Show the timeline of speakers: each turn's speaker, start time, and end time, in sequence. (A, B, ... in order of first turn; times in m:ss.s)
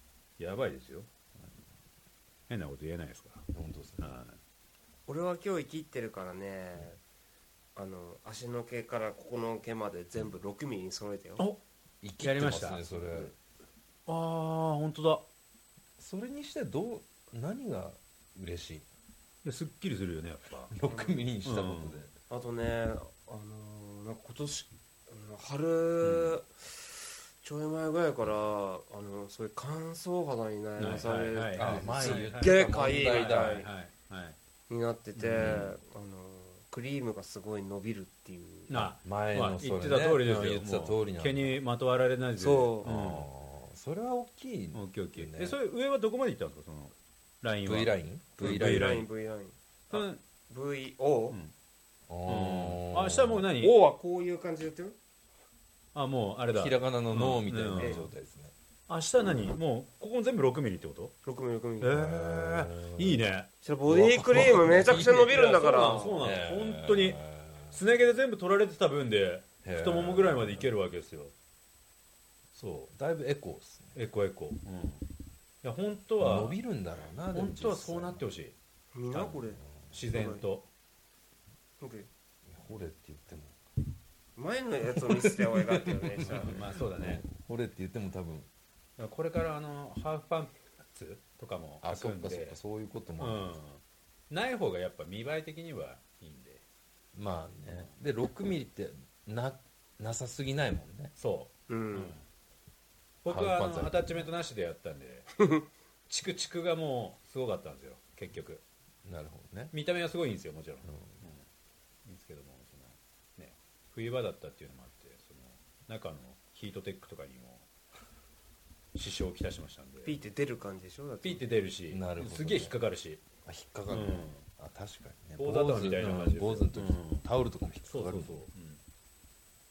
0:00.4-0:01.1 A
0:02.5-0:03.5 A
0:03.5-0:04.1 B
0:04.0-0:04.4 A
0:05.1-0:07.0 C
0:07.8-0:11.4 C
0:12.0-0:13.3 B
0:12.2-0:12.9 A
0:14.1-0:15.2 A
0:16.0-0:18.8 B
0:19.4-0:20.7 A
0:20.7-0:22.1 B
0:20.8-0:21.2 C
0:21.4-0:22.0 A
0:22.3-0:33.7 C
0:26.0-0:26.4 A
0:30.8-0:34.4 A
0:31.6-0:33.6 B
0:34.7-0:38.7 C
0:35.2-0:35.7 A
0:35.4-0:35.6 B
0:38.7-0:43.3 A
0:39.0-0:41.6 B
0:42.4-0:42.9 C
0:42.8-0:45.6 B
0:44.7-0:49.1 A
0:47.6-0:49.0 B
0:48.4-0:51.4 C
0:49.9-0:50.2 A
0:52.1-0:53.4 B
0:52.2-0:53.7 A
0:53.6-0:54.9 C
0:55.9-0:58.1 A
0:56.5-0:58.5 B
0:58.9-1:01.1 A
1:01.2-1:02.0 C
1:01.8-1:03.5 A
1:01.9-1:03.2 B
1:03.6-1:06.2 C
1:03.8-1:07.8 B
1:04.8-1:11.3 A
1:09.6-1:10.7 B
1:12.5-1:12.9 A
1:12.9-1:14.0 B
1:13.9-1:15.0 A
1:15.6-1:16.6 A
1:16.2-1:18.2 B
1:17.3-1:18.5 A
1:18.9-1:19.6 C
1:19.9-1:20.7 A
1:20.1-1:20.4 C
1:21.8-1:22.1 C
1:22.4-1:23.6 B
1:24.4-1:26.5 C
1:24.9-1:28.5 B
1:26.2-1:27.2 A
1:29.0-1:32.6 A
1:31.8-1:33.5 B
1:33.2-1:36.6 A
1:37.1-1:41.1 B
1:41.2-1:42.2 A
1:41.7-1:42.2 C
1:43.2-1:45.3 A
1:43.3-1:44.3 B
1:45.4-1:45.6 C
1:46.1-1:48.6 A
1:49.0-1:49.7 B
1:49.7-1:51.4 A
1:52.0-1:57.7 A
1:58.9-2:00.2 A
2:00.0-2:01.4 C
2:01.2-2:03.2 A
2:01.9-2:02.8 B
2:03.4-2:08.4 B
2:03.9-2:04.4 A
2:05.4-2:07.2 A
2:07.9-2:08.8 A